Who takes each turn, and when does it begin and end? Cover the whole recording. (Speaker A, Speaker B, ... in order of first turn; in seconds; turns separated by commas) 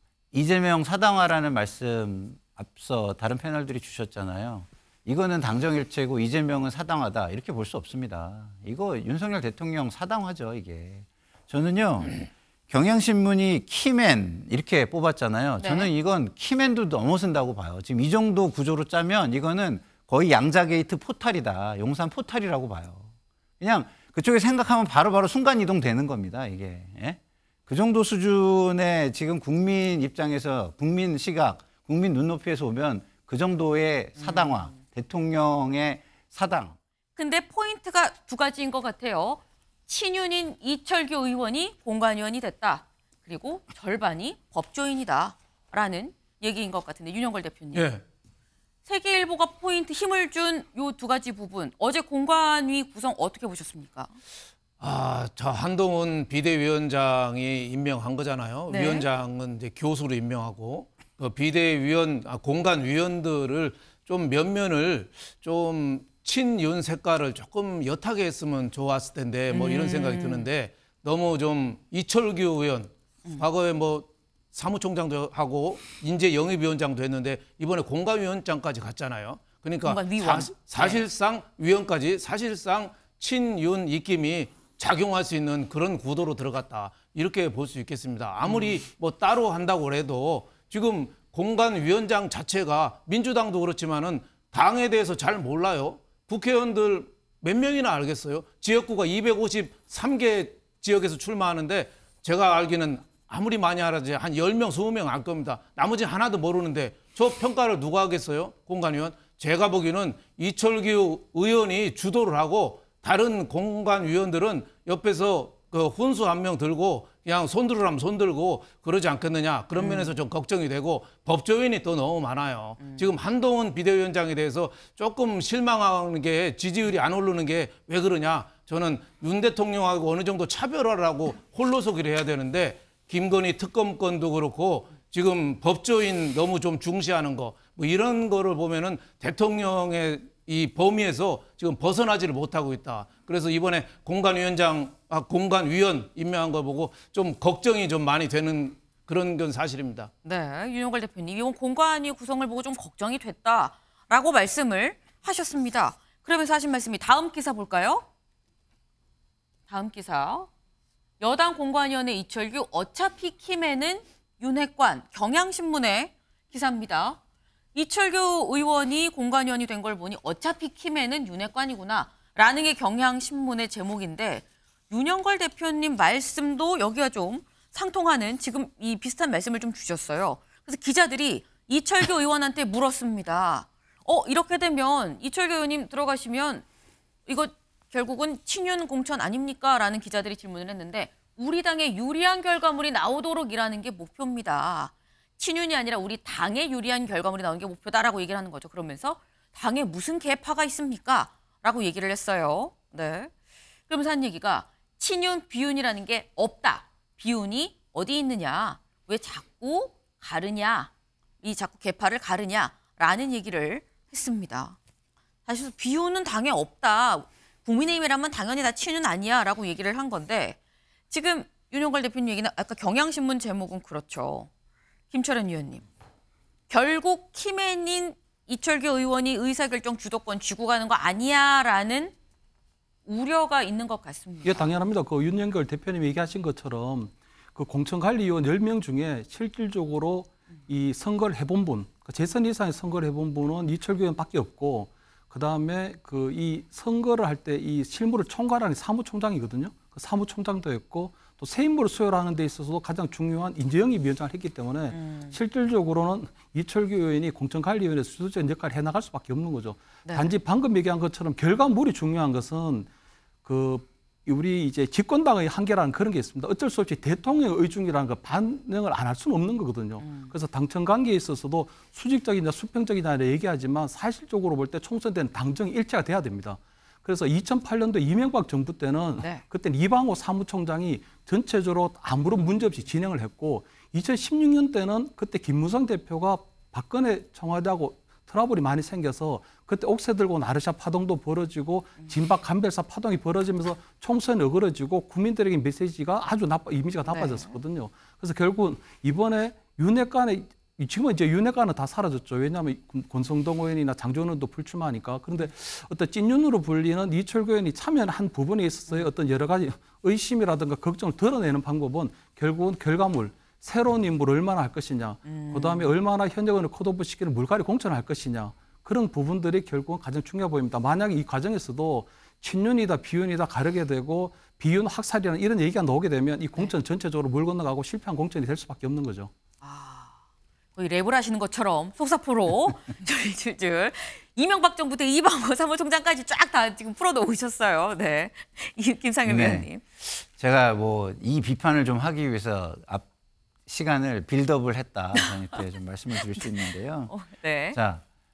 Speaker A: 0.3-23.1, Speaker B: 15.6-15.9, Speaker A: 23.6-36.8, Speaker B: 34.2-34.7, Speaker B: 37.1-47.9, Speaker C: 47.7-48.0, Speaker B: 48.9-54.1, Speaker C: 54.8-150.1, Speaker B: 58.7-59.0, Speaker B: 69.5-70.5, Speaker B: 79.8-81.0, Speaker B: 88.4-88.8, Speaker B: 119.8-120.1, Speaker B: 122.8-123.1, Speaker B: 150.2-158.0, Speaker B: 159.7-160.5, Speaker B: 161.2-167.2, Speaker B: 167.7-186.6, Speaker B: 187.3-203.3, Speaker B: 203.9-210.9, Speaker B: 211.4-214.8, Speaker B: 215.4-220.6, Speaker B: 221.1-224.5, Speaker B: 225.1-225.8, Speaker B: 226.7-232.1, Speaker B: 233.1-234.7, Speaker D: 234.4-262.9, Speaker B: 254.9-255.4, Speaker B: 260.0-260.3, Speaker D: 263.4-329.3, Speaker B: 270.0-270.3, Speaker B: 279.2-279.4, Speaker B: 297.1-297.5, Speaker B: 315.2-315.9, Speaker B: 329.6-330.1, Speaker B: 330.8-339.8, Speaker A: 339.2-343.1, Speaker A: 343.7-347.2, Speaker B: 346.4-347.8, Speaker A: 347.7-348.0